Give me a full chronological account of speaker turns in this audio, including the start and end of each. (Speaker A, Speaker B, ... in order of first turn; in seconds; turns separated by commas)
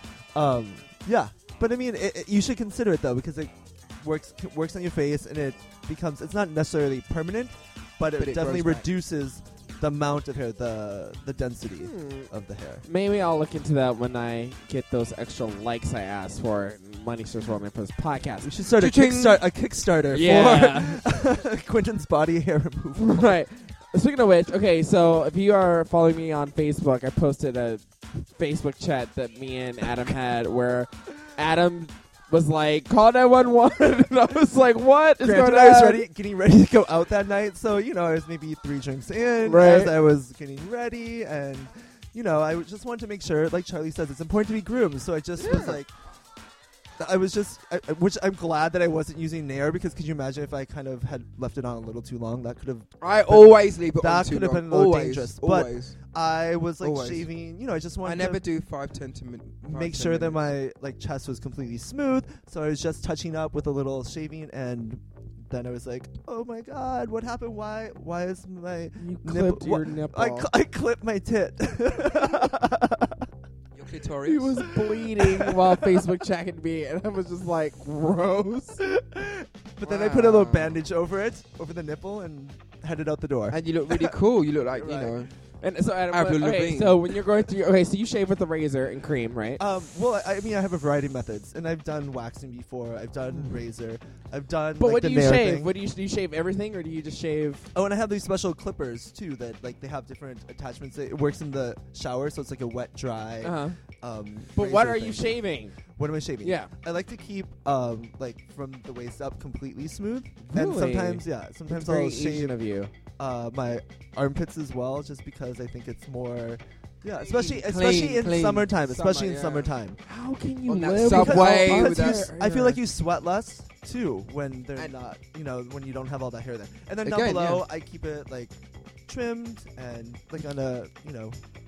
Speaker A: 0.3-12.8, Speaker B: 8.2-8.9, Speaker C: 11.8-12.3, Speaker C: 12.8-18.5, Speaker A: 18.4-23.2, Speaker B: 18.8-19.5, Speaker C: 20.1-21.0, Speaker C: 23.0-36.0, Speaker A: 35.2-45.9, Speaker C: 39.4-40.0, Speaker C: 45.4-45.8, Speaker A: 47.0-58.4, Speaker B: 53.0-56.0, Speaker B: 56.8-57.3, Speaker B: 58.0-60.4, Speaker A: 59.6-73.3, Speaker C: 69.0-70.5, Speaker B: 73.8-74.6, Speaker C: 74.2-78.8, Speaker A: 74.8-76.0, Speaker A: 78.8-84.2, Speaker C: 79.8-80.8, Speaker B: 83.5-85.3, Speaker A: 84.7-85.2, Speaker C: 85.6-89.6, Speaker B: 86.1-87.2, Speaker A: 89.6-95.7, Speaker C: 94.8-97.7, Speaker A: 97.8-112.6, Speaker C: 103.4-103.8, Speaker C: 104.5-105.8, Speaker C: 106.4-106.7, Speaker C: 110.4-112.9, Speaker A: 113.2-120.0, Speaker B: 117.2-119.7, Speaker C: 120.1-122.8, Speaker B: 120.7-122.3, Speaker A: 121.0-131.4, Speaker B: 127.0-127.7